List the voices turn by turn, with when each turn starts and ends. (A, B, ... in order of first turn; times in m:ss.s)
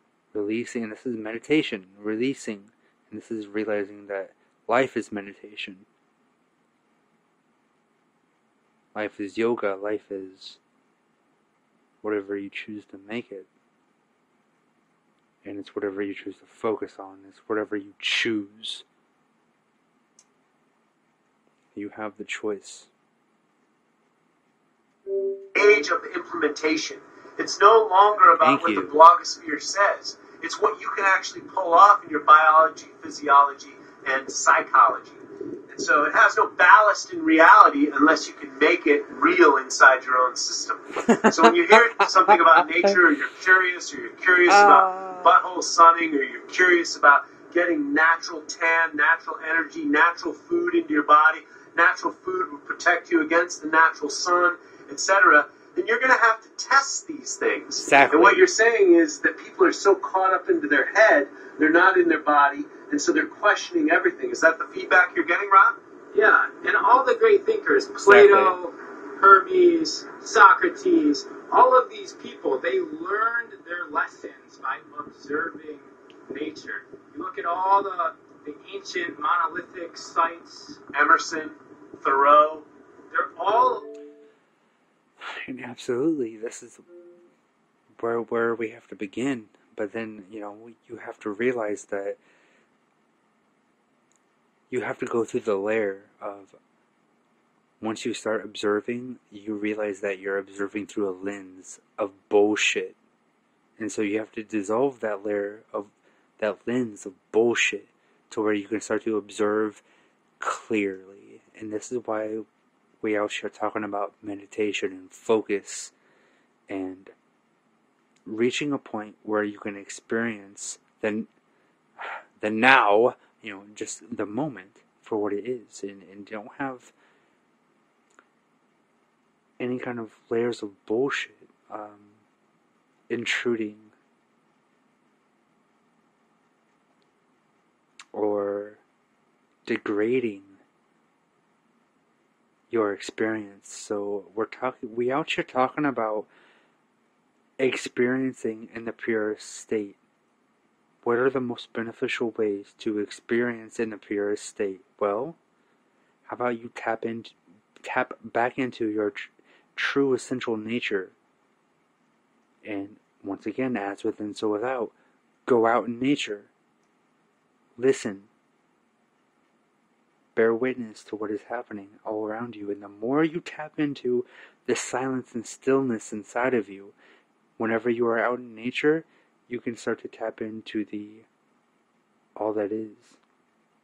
0:00.3-0:05.9 A
0:08.9-0:10.6 A
0:12.0-0:13.5 A
0:15.4-0:18.8 A
0:21.7-0:22.9 A
0:25.5-1:05.8 B
0:28.4-0:28.9 A
0:41.0-0:43.0 A
0:44.5-0:45.4 A
0:57.8-0:58.4 A
1:06.1-1:20.8 C
1:08.0-1:08.5 A
1:20.9-1:22.6 B
1:23.1-1:23.8 C
1:25.2-1:26.8 A
1:28.0-1:32.2 A
1:34.7-1:36.6 A
1:37.8-1:43.0 A
1:43.8-1:49.8 A
1:50.4-1:52.4 A
1:53.0-1:55.9 A
1:56.7-1:57.1 A
1:58.2-2:01.3 A
2:02.0-2:06.9 A
2:09.6-2:12.2 A
2:13.1-2:13.9 A
2:18.1-2:18.8 A
2:19.6-2:20.6 A
2:22.7-2:26.3 A
2:27.6-2:30.0 A
2:31.0-2:35.4 A
2:36.2-2:41.1 A
2:42.6-2:44.9 A
2:45.4-2:46.5 A
2:47.8-2:48.3 A
2:50.3-2:56.9 A
2:57.6-3:01.3 A
3:02.4-3:03.2 A